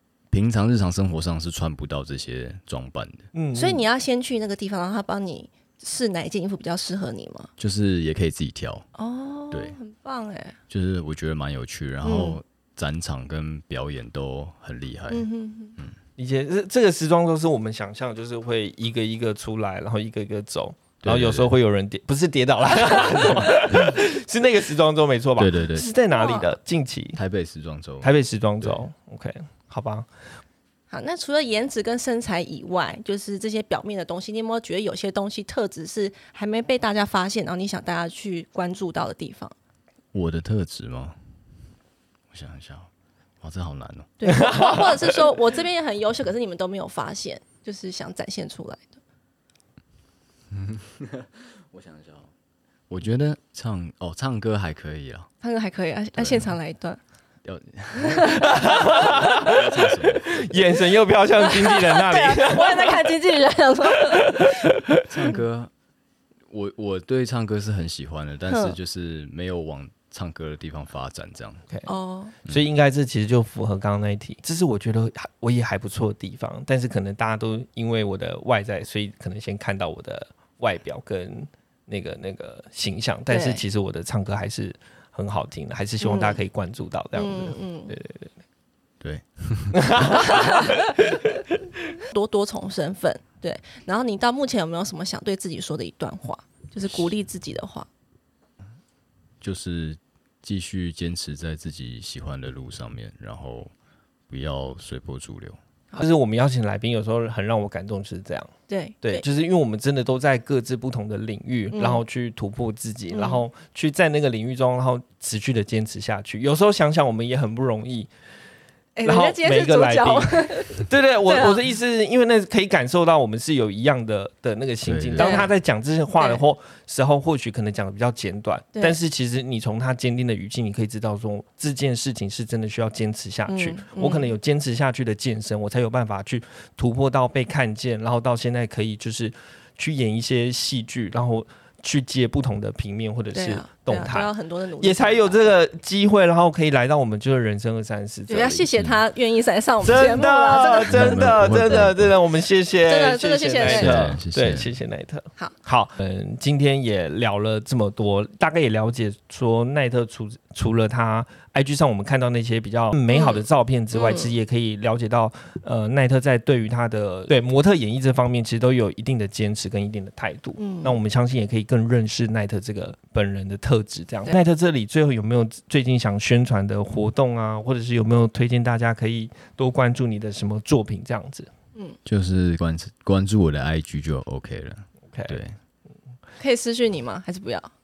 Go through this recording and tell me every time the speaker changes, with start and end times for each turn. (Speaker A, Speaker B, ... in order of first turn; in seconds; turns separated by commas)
Speaker A: 0.3-3.3, Speaker B: 3.3-3.8, Speaker C: 3.5-7.5, Speaker A: 7.6-8.8, Speaker C: 8.9-10.6, Speaker A: 9.5-9.8, Speaker A: 10.7-15.2, Speaker C: 12.0-12.4, Speaker C: 15.1-15.8, Speaker B: 16.2-27.2, Speaker A: 21.0-21.5, Speaker A: 25.4-25.9, Speaker C: 26.1-26.6, Speaker A: 27.1-28.8, Speaker B: 28.0-30.1, Speaker C: 30.9-39.5, Speaker A: 40.1-41.2, Speaker A: 42.3-42.9, Speaker A: 43.4-44.1, Speaker C: 44.2-49.0, Speaker B: 44.3-45.0, Speaker A: 50.5-52.3, Speaker A: 52.9-55.3, Speaker C: 55.4-57.0, Speaker A: 56.1-56.5, Speaker A: 57.4-60.6, Speaker C: 57.9-58.6, Speaker B: 58.4-59.6, Speaker B: 60.1-63.1, Speaker C: 61.4-64.5, Speaker B: 64.0-65.0, Speaker A: 65.1-65.7, Speaker A: 66.5-71.6, Speaker C: 68.5-68.8, Speaker C: 71.8-72.3, Speaker B: 72.4-88.3, Speaker C: 83.3-83.6, Speaker C: 86.0-86.4, Speaker C: 87.1-87.9, Speaker A: 89.0-90.2, Speaker B: 89.7-91.4, Speaker C: 92.0-97.9, Speaker A: 99.4-103.7, Speaker A: 104.3-105.6, Speaker B: 106.0-118.1, Speaker C: 108.7-109.2, Speaker C: 111.7-112.0, Speaker C: 113.1-113.4, Speaker C: 119.0-121.6, Speaker B: 119.0-148.7, Speaker A: 124.8-125.5, Speaker C: 125.2-125.5, Speaker C: 133.5-134.3, Speaker C: 143.3-145.4, Speaker C: 148.3-151.9, Speaker B: 149.8-181.5, Speaker A: 150.9-152.1, Speaker C: 152.9-154.1, Speaker A: 153.6-154.7, Speaker C: 163.1-163.4, Speaker C: 163.9-164.3, Speaker C: 170.6-171.0, Speaker A: 182.0-185.6, Speaker B: 185.1-185.4, Speaker C: 186.4-187.7